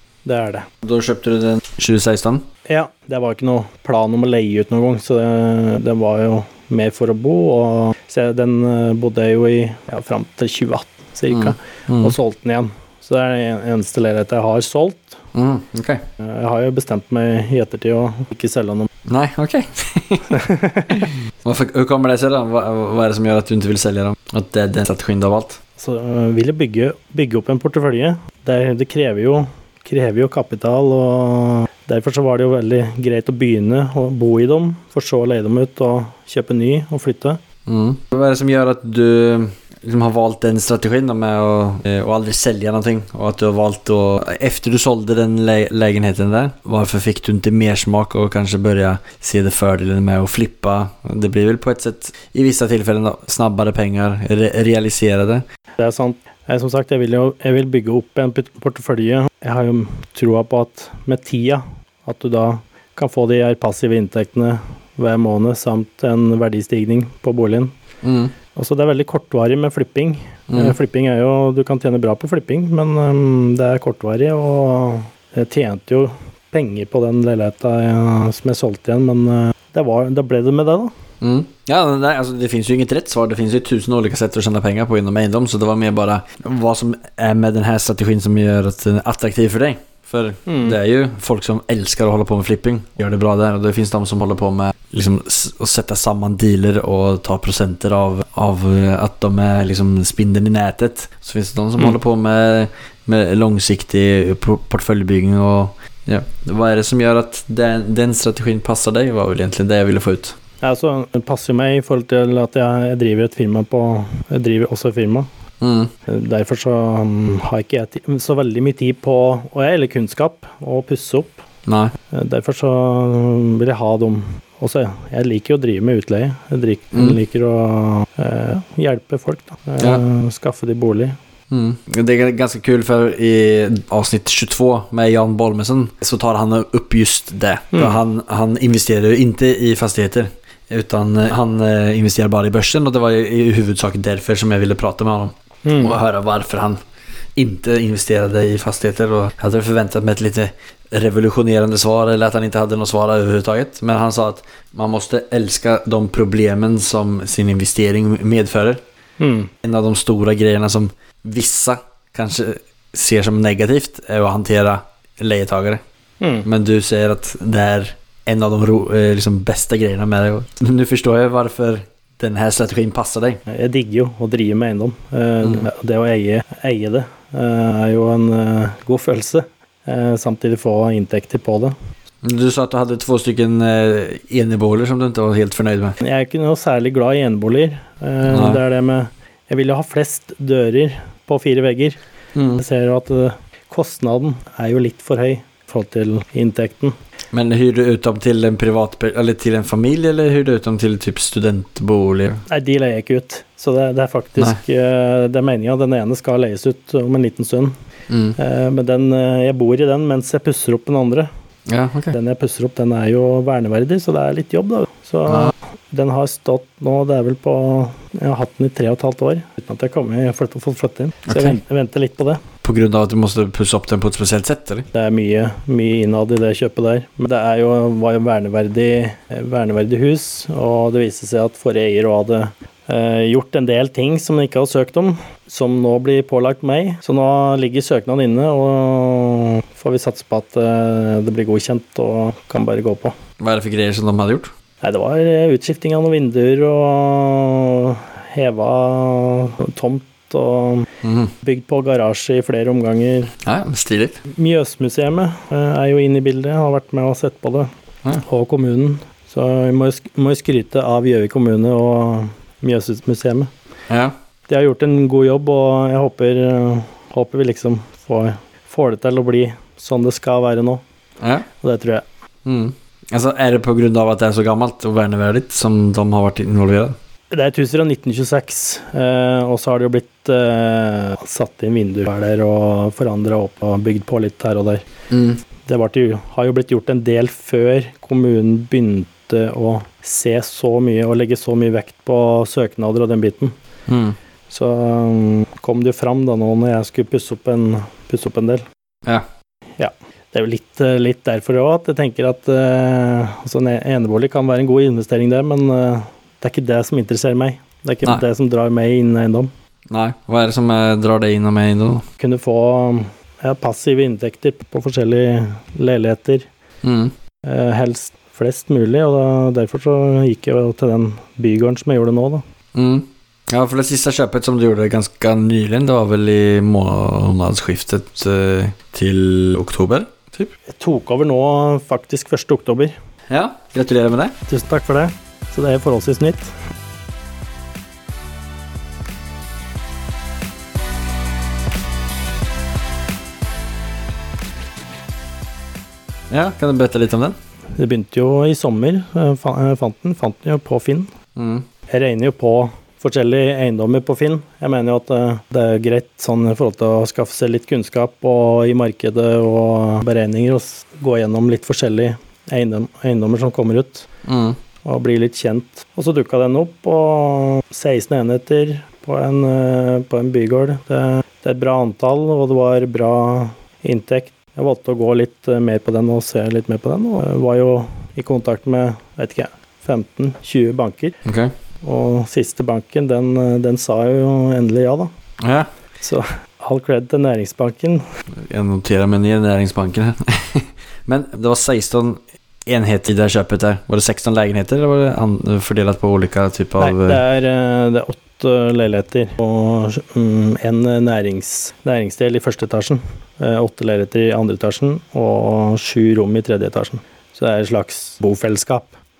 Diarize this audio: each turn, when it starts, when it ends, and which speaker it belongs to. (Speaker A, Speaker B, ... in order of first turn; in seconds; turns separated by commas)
Speaker A: 0.2-0.7, Speaker B: 0.8-2.5, Speaker A: 2.7-15.2, Speaker B: 11.3-12.1, Speaker B: 15.3-16.0, Speaker A: 16.2-18.9, Speaker B: 19.1-20.4, Speaker A: 20.3-21.1, Speaker B: 20.9-25.6, Speaker A: 25.8-37.4, Speaker B: 37.6-55.4, Speaker A: 55.8-67.7, Speaker B: 68.0-68.3, Speaker A: 68.5-80.9, Speaker B: 70.5-70.7, Speaker B: 81.2-110.4, Speaker A: 90.5-90.8, Speaker A: 110.6-115.3, Speaker B: 115.6-115.9, Speaker A: 116.1-121.4, Speaker B: 121.7-121.9, Speaker A: 122.1-131.2, Speaker B: 126.9-127.2, Speaker B: 131.5-146.8, Speaker A: 145.6-145.9, Speaker B: 147.3-158.8, Speaker A: 159.2-159.5, Speaker B: 159.6-165.8, Speaker A: 166.2-166.4, Speaker B: 166.4-173.4, Speaker A: 173.5-181.7, Speaker B: 182.2-186.0, Speaker A: 186.0-192.0, Speaker B: 188.2-188.6, Speaker B: 192.3-192.6, Speaker A: 192.6-196.9, Speaker B: 197.3-202.4, Speaker A: 202.5-207.7, Speaker B: 208.1-208.3, Speaker A: 208.3-211.3, Speaker B: 211.7-212.1, Speaker A: 212.1-222.4, Speaker B: 221.3-221.6, Speaker B: 222.6-224.9, Speaker A: 224.9-243.2, Speaker B: 243.4-244.5, Speaker A: 244.8-250.9, Speaker B: 251.0-251.3, Speaker A: 251.4-253.3, Speaker B: 253.4-254.2, Speaker A: 254.3-257.7, Speaker A: 258.2-263.5, Speaker B: 263.9-264.1, Speaker A: 264.5-270.8, Speaker B: 271.2-271.5, Speaker A: 271.6-272.0, Speaker B: 272.4-276.9, Speaker A: 277.3-284.8, Speaker B: 285.1-285.4, Speaker A: 285.6-293.6, Speaker B: 293.9-294.1, Speaker A: 294.5-298.6, Speaker A: 299.8-309.5, Speaker B: 309.9-312.1, Speaker A: 312.2-316.5, Speaker B: 316.8-317.1, Speaker A: 317.4-322.4, Speaker B: 322.7-330.5, Speaker A: 330.7-332.9, Speaker B: 333.3-334.3, Speaker A: 334.5-336.5, Speaker B: 346.3-347.4, Speaker A: 347.8-351.1, Speaker B: 351.4-351.6, Speaker A: 351.9-364.1, Speaker B: 364.2-364.6, Speaker A: 364.8-381.2, Speaker B: 381.2-381.5, Speaker A: 381.8-385.1, Speaker B: 385.4-385.7, Speaker A: 386.0-388.0, Speaker B: 388.3-397.2, Speaker A: 396.8-408.9